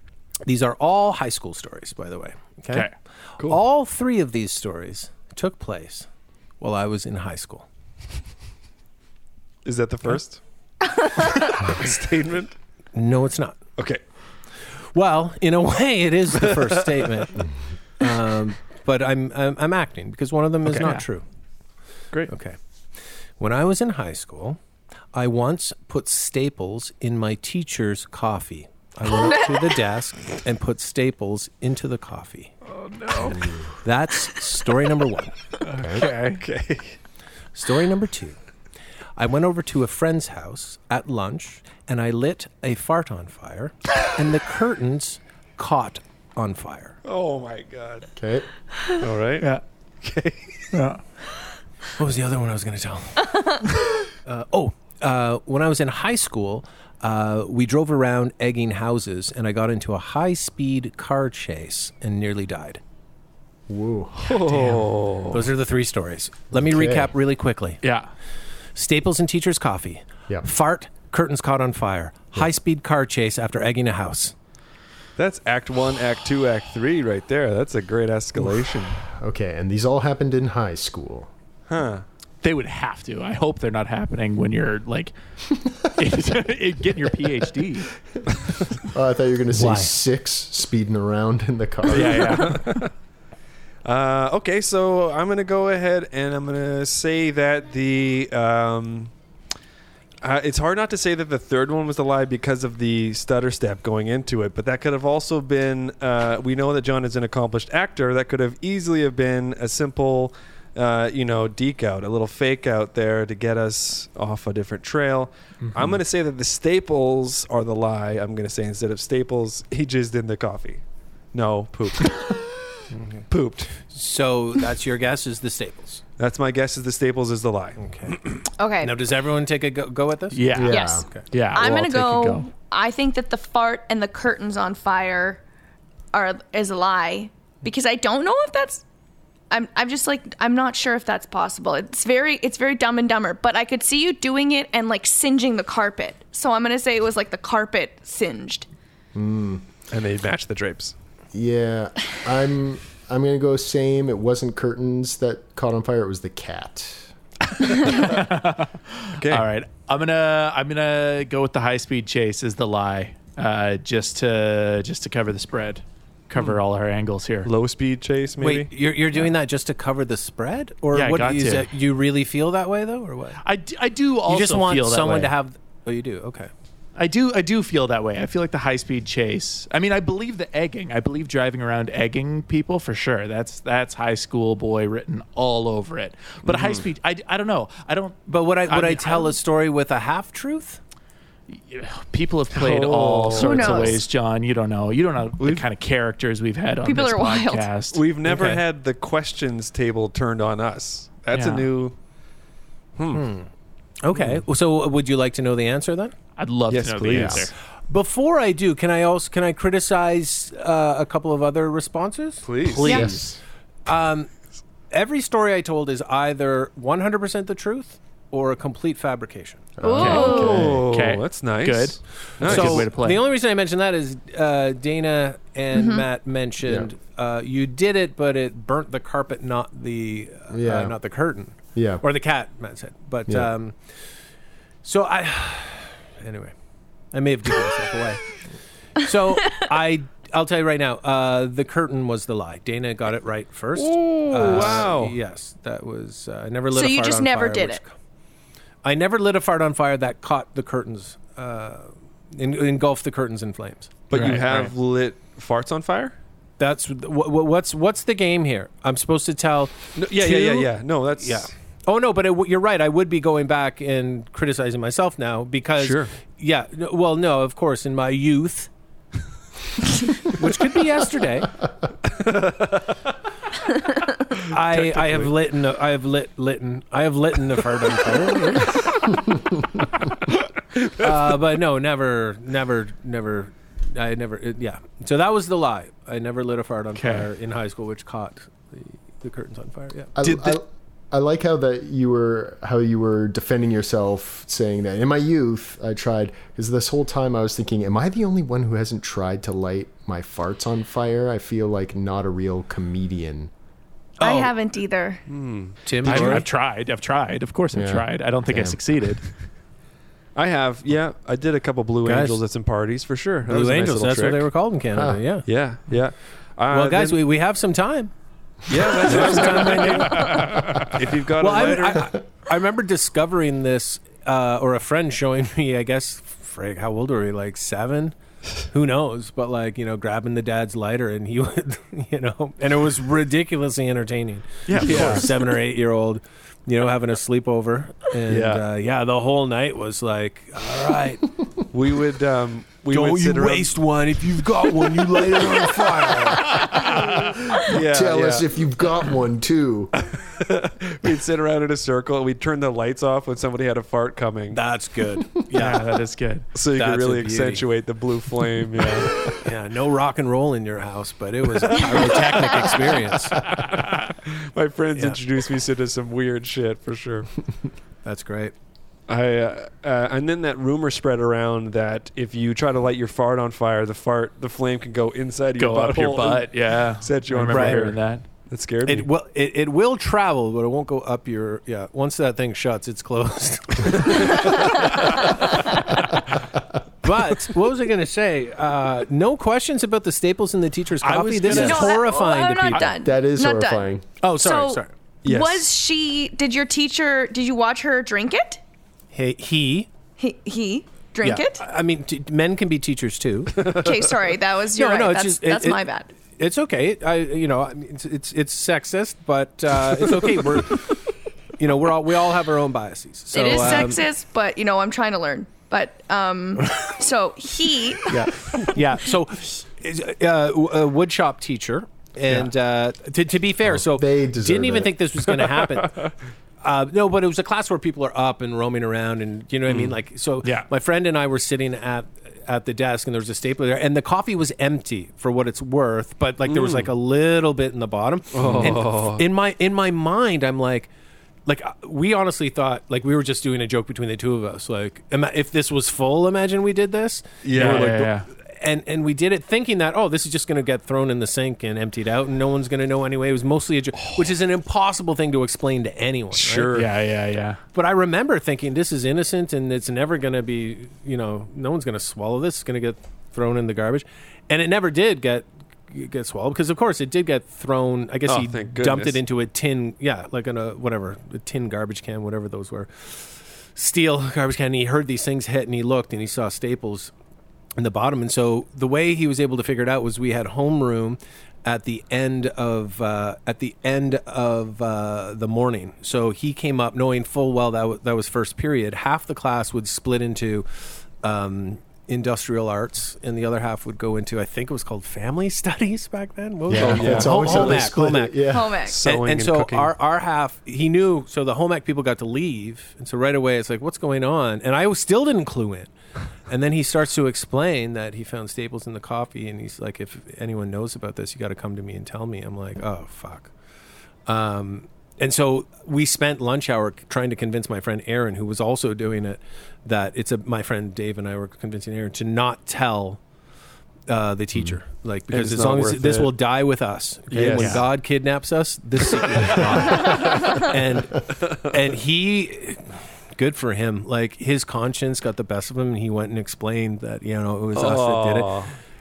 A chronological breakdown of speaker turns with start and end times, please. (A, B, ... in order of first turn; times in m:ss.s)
0:00.5-0:02.9 A
0:03.4-0:06.1 A
0:06.6-0:07.7 A
0:09.6-0:10.4 B
0:11.0-0:11.4 C
0:11.4-0:12.5 B
0:12.9-0:13.6 A
0:14.9-0:17.4 A
0:16.4-0:17.0 B
0:18.0-0:21.2 A
0:20.7-0:21.1 D
0:22.3-0:22.6 A
0:23.4-0:24.6 A
0:25.1-0:32.6 A
0:32.8-0:33.4 B
0:33.3-0:33.6 E
0:33.8-0:35.4 A
0:35.6-0:36.4 D
0:35.8-0:36.0 E
0:36.0-0:37.0 B
0:37.6-0:38.4 A
0:39.2-0:47.0 A
0:47.0-0:48.1 B
0:48.2-0:48.5 E
0:49.0-0:50.8 B
0:50.7-0:51.0 D
0:52.0-0:53.6 A
0:54.2-1:02.8 A
1:03.7-1:04.3 E
1:04.2-1:05.5 B
1:04.5-1:04.8 D
1:05.3-1:07.8 A
1:06.5-1:07.1 E
1:07.8-1:08.1 D
1:08.8-1:14.3 A
1:15.2-1:19.0 B
1:19.0-1:21.3 E
1:21.7-1:22.0 B
1:22.4-1:25.1 D
1:25.8-1:27.9 D
1:28.9-1:32.4 E
1:29.5-1:30.0 A
1:31.9-1:32.9 D
1:31.9-1:32.9 B
1:33.8-1:39.1 B
1:40.2-2:00.8 B
1:55.6-1:55.9 D
2:01.3-2:02.4 B
2:02.9-2:03.2 A
2:03.3-2:03.7 B
2:03.8-2:06.0 A
2:06.2-2:08.2 B
2:07.8-2:11.2 A
2:08.6-2:09.0 C
2:10.3-2:12.5 D
2:10.5-2:11.1 E
2:10.7-2:15.4 C
2:16.1-2:18.8 C
2:19.5-2:28.7 C
2:29.1-2:29.6 E
2:29.9-2:31.0 B
2:31.3-2:37.1 E
2:37.7-2:47.5 D
2:39.2-2:39.5 B
2:47.4-2:48.7 B
2:48.4-2:53.4 A
2:50.9-2:51.7 D
2:53.4-2:55.3 D
2:54.3-2:56.5 A
2:57.0-3:09.3 D
3:06.5-3:06.8 B
3:08.3-3:10.8 A
3:11.5-3:18.0 D
3:12.5-3:14.0 B
3:13.4-3:14.0 C
3:15.4-3:15.6 B
3:16.8-3:17.7 C
3:17.9-3:21.9 B
3:18.2-3:18.6 A
3:21.3-3:21.7 D
3:23.0-3:23.3 B
3:23.1-3:23.5 A
3:24.0-3:26.2 A
3:26.4-3:27.5 D
3:26.7-3:27.5 B
3:27.1-3:27.4 E
3:27.9-3:33.3 A
3:32.4-3:32.9 B
3:32.8-3:33.1 C
3:32.8-3:33.4 E
3:33.9-3:34.3 A
3:34.9-3:39.8 A
3:39.8-3:40.8 E
3:39.8-3:40.6 C
3:39.9-3:43.2 D
3:40.0-3:42.9 B
3:42.4-3:54.0 A
3:45.7-3:46.0 C
3:50.5-3:51.0 E
3:51.8-3:52.0 E
3:54.8-3:56.5 A
3:57.1-3:58.4 A
3:59.0-4:07.9 A
4:03.8-4:05.2 B
4:04.4-4:04.8 D
4:06.7-4:07.8 C
4:08.8-4:14.0 A
4:14.1-4:16.2 B
4:14.1-4:14.7 D
4:16.6-4:28.7 A
4:20.0-4:21.5 B
4:25.8-4:26.1 B
4:30.2-4:31.5 A
4:32.1-4:32.9 B
4:34.4-4:35.3 B
4:34.5-4:39.0 A
4:40.8-4:41.1 B
4:40.9-4:50.1 A
4:47.0-4:47.3 D
4:50.2-5:03.5 E
5:04.2-5:04.5 A
5:04.2-5:05.2 C
5:05.3-5:06.4 B
5:05.9-5:06.5 A
5:06.0-5:09.3 D
5:07.7-5:08.8 E
5:10.4-5:14.5 B
5:12.0-5:12.4 A
5:13.5-5:15.5 A
5:15.4-5:17.2 B
5:16.7-5:18.1 A
5:18.7-5:22.1 B
5:18.7-5:20.8 A
5:20.1-5:20.8 D
5:21.4-5:28.2 A
5:28.7-5:41.3 A
5:34.7-5:35.3 B
5:34.7-5:35.3 D
5:38.3-5:38.6 B
5:41.7-5:43.7 B
5:42.9-5:46.7 A
5:46.6-5:47.0 D
5:47.5-5:48.5 B
5:47.7-5:49.9 E
5:50.1-5:54.6 B
5:54.5-5:55.9 A
5:55.5-5:56.5 D
5:56.6-5:59.2 B
5:56.7-5:57.6 A
5:59.3-6:03.4 A
6:03.4-6:07.3 B
6:08.0-6:08.5 A
6:09.1-6:19.1 B
6:15.6-6:18.2 D
6:17.5-6:17.9 A
6:18.9-6:25.6 A
6:23.8-6:25.0 B
6:27.0-6:33.0 A
6:31.0-6:32.1 D
6:31.5-6:33.9 C
6:32.7-6:34.0 E
6:34.2-6:34.9 A
6:34.4-6:38.6 C
6:35.2-6:35.6 B
6:39.1-6:39.9 A
6:40.2-6:41.6 C
6:41.2-6:43.7 A
6:43.6-6:43.9 B
6:43.7-6:46.1 C
6:44.8-6:51.0 A
6:51.6-6:54.0 A
6:53.3-6:58.3 C
6:58.6-7:06.0 A
7:03.6-7:04.9 E
7:06.6-7:20.9 A
7:09.7-7:09.9 B
7:10.4-7:10.7 D
7:16.5-7:16.9 B
7:18.3-7:19.2 B
7:18.5-7:18.8 D
7:21.5-7:36.8 A
7:27.4-7:28.1 B
7:27.5-7:28.3 D
7:36.3-7:36.9 B
7:36.7-7:37.6 D
7:37.8-7:57.1 A
7:48.3-7:49.2 B
7:57.8-8:10.7 A
8:11.2-8:18.5 A
8:16.7-8:18.8 E
8:16.7-8:17.9 B
8:18.5-8:19.0 C
8:18.8-8:19.9 B
8:19.0-8:25.9 A
8:26.5-8:33.5 A
8:34.3-8:43.2 A
8:44.1-8:58.6 A
8:45.3-8:46.4 B
8:47.3-8:47.8 B
8:47.5-8:47.8 D
8:49.4-8:50.6 B
8:51.3-8:51.7 B
8:57.8-8:58.7 B